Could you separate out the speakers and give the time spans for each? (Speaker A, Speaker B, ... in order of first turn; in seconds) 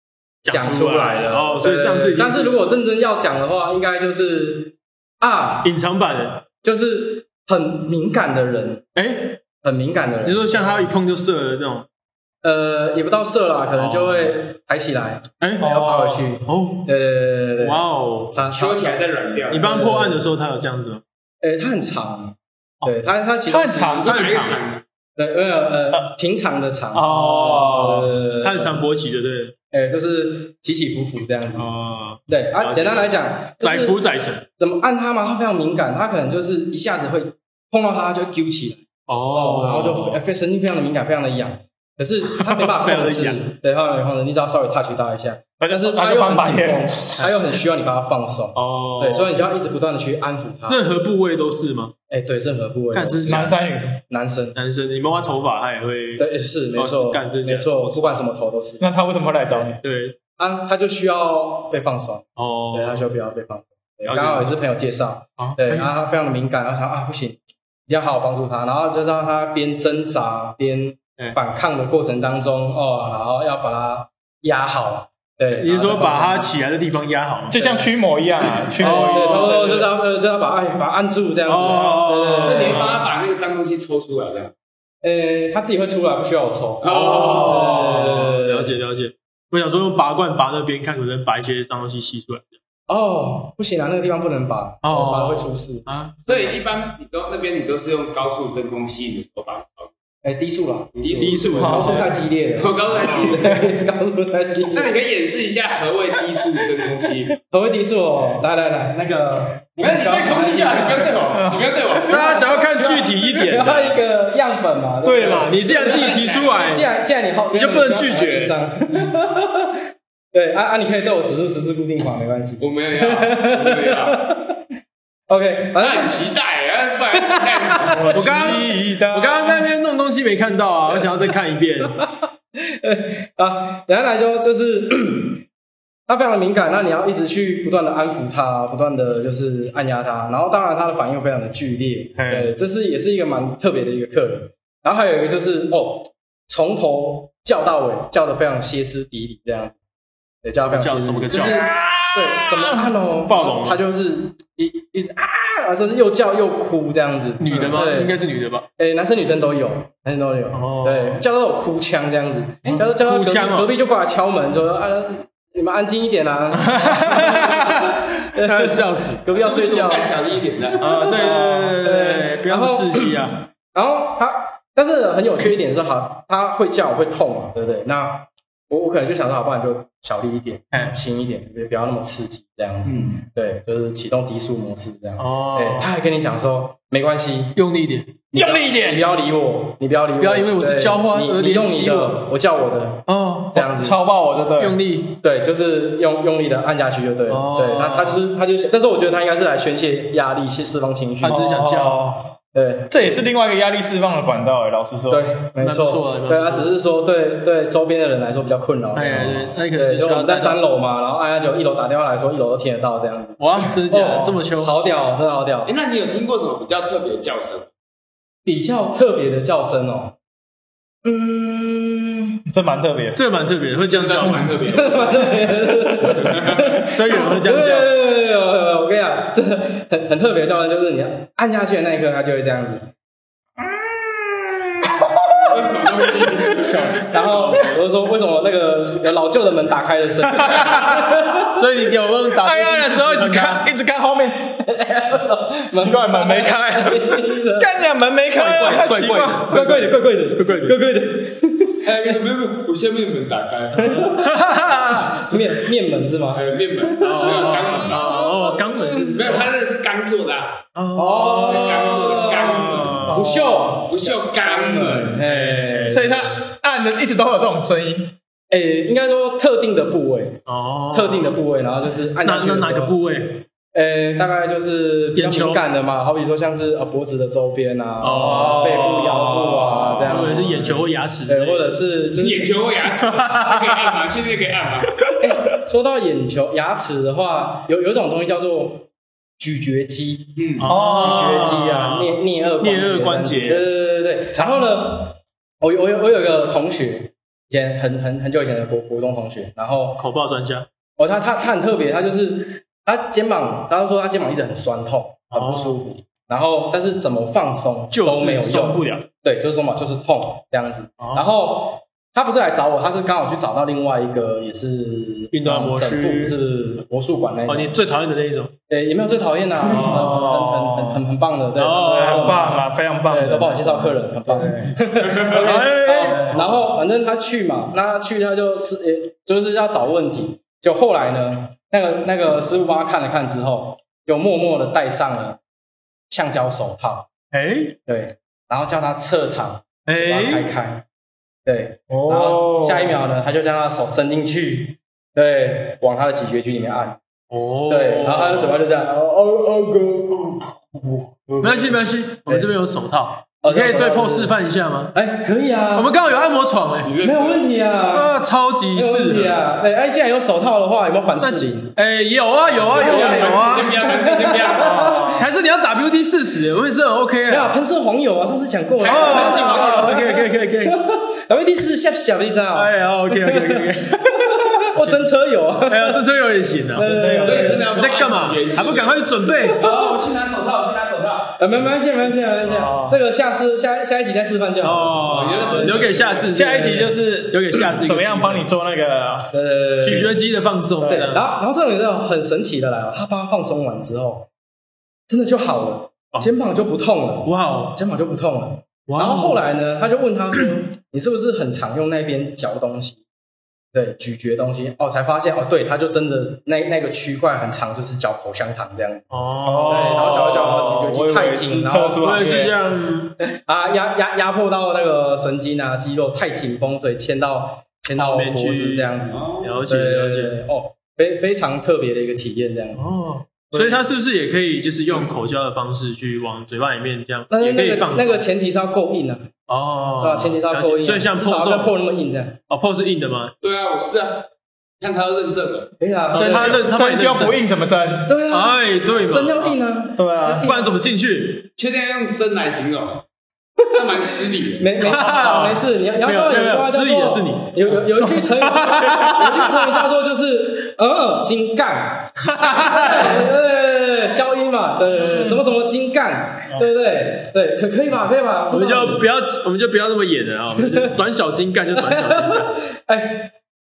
Speaker A: 0.4-2.6, 5.6-6.5, 8.9-9.4, 10.2-11.9, 13.8-14.4, 15.4-16.9, 17.6-18.4, 19.5-21.0, 26.9-29.5, 31.6-34.5, 39.1-40.2, 42.4-43.4, 48.5-49.4, 50.7-51.9, 52.9-53.5, 54.5-58.2, 59.8-60.2, 62.4-63.1, 64.1-64.5, 65.4-65.9, 75.6-77.8, 78.7-79.9, 81.5-83.1, 86.9-92.6, 94.8-96.5, 101.2-102.1, 103.0-103.3, 112.1-114.0, 115.0-116.9, 117.5-118.5, 128.1-132.0, 142.2-142.5, 150.7-153.8, 157.4-158.7, 160.5-161.2, 162.7-163.7, 166.5-169.2, 170.8-173.4, 185.2-185.9, 187.6-188.3, 190.2-192.2, 193.1-193.7, 194.6-195.2, 197.3-198.2, 201.2-202.1, 205.6-206.7, 208.9-210.6, 213.4-214.9, 223.2-224.6, 226.8-227.9, 236.6-237.4, 240.9-243.7, 248.3-250.8, 253.9-255.3, 257.0-259.5, 260.8-263.5, 265.2-266.1, 270.5-271.4, 272.2-273.4, 275.1-275.6, 278.0-281.7, 283.1-283.9, 290.6-293.7, 300.0-300.7, 305.3-305.8, 307.9-309.1, 311.0-311.3, 315.3-316.4, 317.5-318.5, 319.7-321.0, 321.6-322.6, 325.2-326.5, 337.3-337.8, 339.9-340.5, 341.9-343.0, 347.3-348.6, 351.4-354.9, 355.8-357.0, 357.9-359.4, 361.2-364.0, 365.0-367.6, 368.9-370.8, 372.6-375.1, 375.7-379.6, 384.6-388.5, 389.8-391.2, 397.2-397.8, 398.9-399.4, 409.1-410.8, 412.0-413.1, 417.9-420.4, 422.8-428.2, 429.5-431.7, 432.5-433.3, 436.1-437.4, 438.3-439.6, 440.4-441.5, 444.8-449.8, 452.2-453.3, 458.5-462.5
Speaker B: 0.5-5.7, 6.6-8.9, 9.6-10.9, 12.4-18.9, 19.5-20.2, 21.4-24.2, 25.2-28.8, 29.7-31.7, 32.3-34.0, 34.6-50.9, 52.1-54.6, 56.2-58.9, 60.4-76.5, 78.8-82.9, 85.0-88.8, 92.9-95.9, 100.2-104.9, 107.5-111.4, 111.9-119.8, 120.3-124.6, 125.3-126.3, 127.1-128.1, 132.6-135.4, 136.1-149.8, 150.4-158.2, 158.8-170.1, 170.9-187.6, 188.3-194.0, 195.2-201.4, 202.5-203.3, 205.1-215.7, 218.4-220.2, 221.0-222.4, 224.7-232.9, 236.9-241.6, 244.7-247.8, 249.4-251.9, 253.8-257.3, 258.0-258.3, 260.9-266.3, 268.5-273.0, 273.7-282.7, 285.2-300.0, 301.0-317.8, 318.7-335.4, 336.1-337.1, 337.9-340.9, 341.5-347.0, 347.7-352.5, 353.4-354.4, 354.9-356.1, 357.0-358.2, 358.7-361.7, 362.6-365.3, 367.3-376.1, 376.7-377.7, 379.4-379.9, 381.4-386.8, 389.3-390.3, 390.8-394.3, 395.1-403.0, 403.7-409.1, 409.6-412.0, 413.3-422.9, 423.5-423.9, 427.3-429.3, 430.0-432.4, 435.8-436.6, 438.1-440.8, 444.6-459.0, 460.6-460.9, 461.8-463.3
Speaker C: 15.6-16.2, 23.5-24.6, 27.0-28.1, 45.6-47.4, 53.3-54.0, 58.8-59.8, 77.5-79.7, 101.6-102.1, 111.3-111.7, 127.8-129.7, 188.3-189.1, 193.6-194.8, 201.3-202.3, 202.9-205.3, 222.5-223.2, 233.6-236.8, 242.4-244.7, 245.7-249.8, 265.9-268.1, 278.2-278.7, 290.7-291.5, 319.7-320.4, 321.8-324.8, 325.9-326.6, 364.6-365.2, 376.8-377.6, 382.4-383.0, 386.3-389.3, 409.5-412.6, 436.1-438.2, 440.0-440.5, 455.0-455.4
Speaker D: 18.5-19.7, 23.9-24.8, 82.4-84.5, 86.8-88.1, 96.3-99.9, 101.0-102.0, 102.6-103.7, 104.7-107.4, 109.8-113.1, 116.0-116.3, 122.6-124.3, 125.8-128.2, 169.3-171.1, 182.9-183.2, 215.7-217.7, 223.9-226.9, 235.5-237.6, 251.8-254.1, 256.3-258.3, 258.9-260.6, 261.4-265.3, 282.1-285.0, 290.4-290.7, 356.8-357.4, 362.6-365.0, 368.8-370.1, 377.2-381.4, 385.0-386.3, 419.1-419.5, 433.4-434.3, 434.8-435.7, 441.6-443.0, 443.7-445.0